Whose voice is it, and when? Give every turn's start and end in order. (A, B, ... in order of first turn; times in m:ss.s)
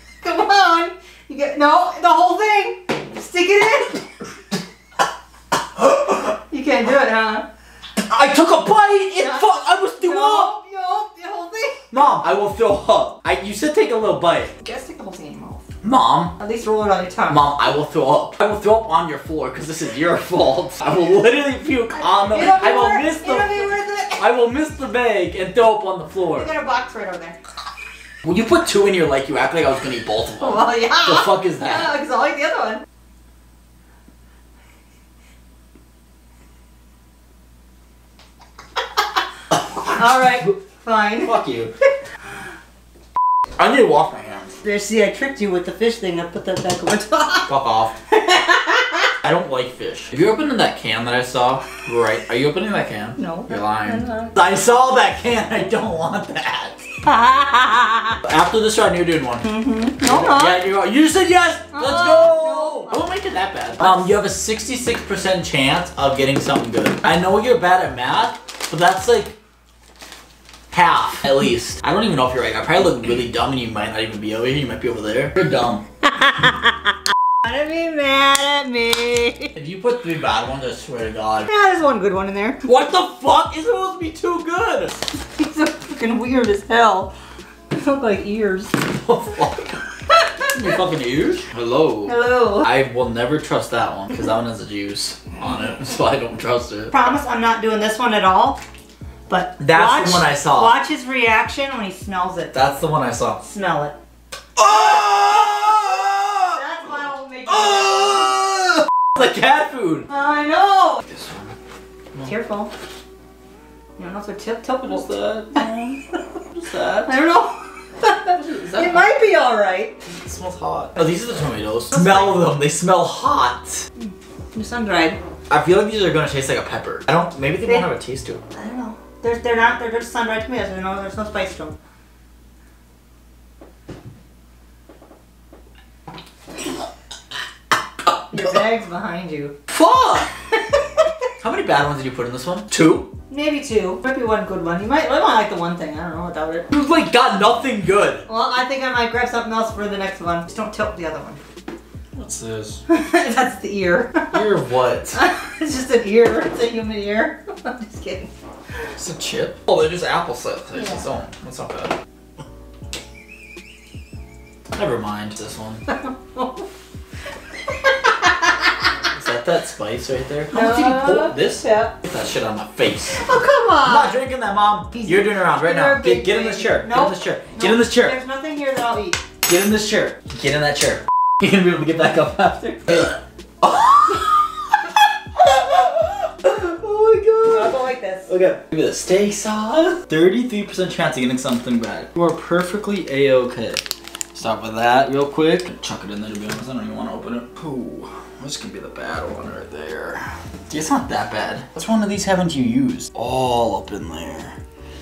0:00.2-0:04.2 A
0:05.8-0:07.4 A
0:08.0-0:10.5 B
0:09.2-0:12.2 A
0:11.9-0:14.5 B
0:14.6-0:15.6 A
0:15.8-0:16.3 B
0:16.4-0:17.4 A
0:17.3-0:26.5 B
0:22.0-0:24.2 A
0:26.3-0:27.4 A
0:28.2-0:32.0 B
0:30.4-0:32.8 A
0:39.7-0:40.5 B
0:39.8-0:41.4 A
0:41.2-0:41.7 B
0:43.6-0:44.6 B
0:44.6-0:47.5 A
0:47.5-0:47.9 B
0:48.1-0:49.1 A
0:49.2-0:56.8 B
0:53.2-0:54.3 A
0:57.0-0:58.2 A
0:58.2-0:59.5 B
0:59.4-1:00.6 A
1:00.0-1:09.3 B
1:01.7-1:03.1 A
1:03.8-1:04.1 A
1:10.7-1:15.8 B
1:16.2-1:16.7 A
1:17.4-1:19.5 A
1:19.5-1:21.5 B
1:21.4-1:22.6 A
1:22.6-1:25.0 B
1:25.2-1:27.1 A
1:27.7-1:28.7 A
1:28.8-1:29.8 B
1:30.1-1:30.5 A
1:30.4-1:36.9 B
1:32.0-1:32.7 A
1:36.9-1:38.6 A
1:39.3-1:42.5 A
1:39.6-1:40.8 B
1:42.5-1:43.4 B
1:43.4-1:44.0 A
1:44.6-1:46.6 B
1:44.6-1:45.0 A
1:46.5-1:48.4 A
1:47.5-1:50.1 B
1:50.1-1:51.0 A
1:51.1-1:51.5 B
1:52.2-1:52.7 A
1:54.0-1:55.8 A
1:54.8-1:56.0 B
1:56.5-1:57.1 B
1:57.0-2:00.0 A
1:58.3-1:59.1 B
2:00.2-2:03.9 B
2:01.9-2:02.4 A
2:04.0-2:05.2 A
2:05.5-2:08.4 B
2:08.5-2:11.8 A
2:18.3-2:19.5 A
2:19.7-2:20.3 B
2:21.4-2:23.1 B
2:23.3-2:26.7 A
2:26.7-2:28.2 B
2:28.2-2:31.4 A
2:32.1-2:32.8 B
2:32.9-2:34.4 A
2:34.3-2:35.2 B
2:35.1-2:38.3 A
2:39.0-2:41.9 B
2:40.7-2:41.0 A
2:44.7-2:45.8 B
2:45.9-2:46.6 A
2:47.9-2:48.3 A
2:49.1-2:53.2 B
2:50.5-2:51.9 A
2:53.1-2:54.2 A
2:53.8-2:58.2 B
2:54.9-2:59.2 A
2:59.4-3:13.8 B
3:07.5-3:08.3 A
3:14.3-3:24.6 B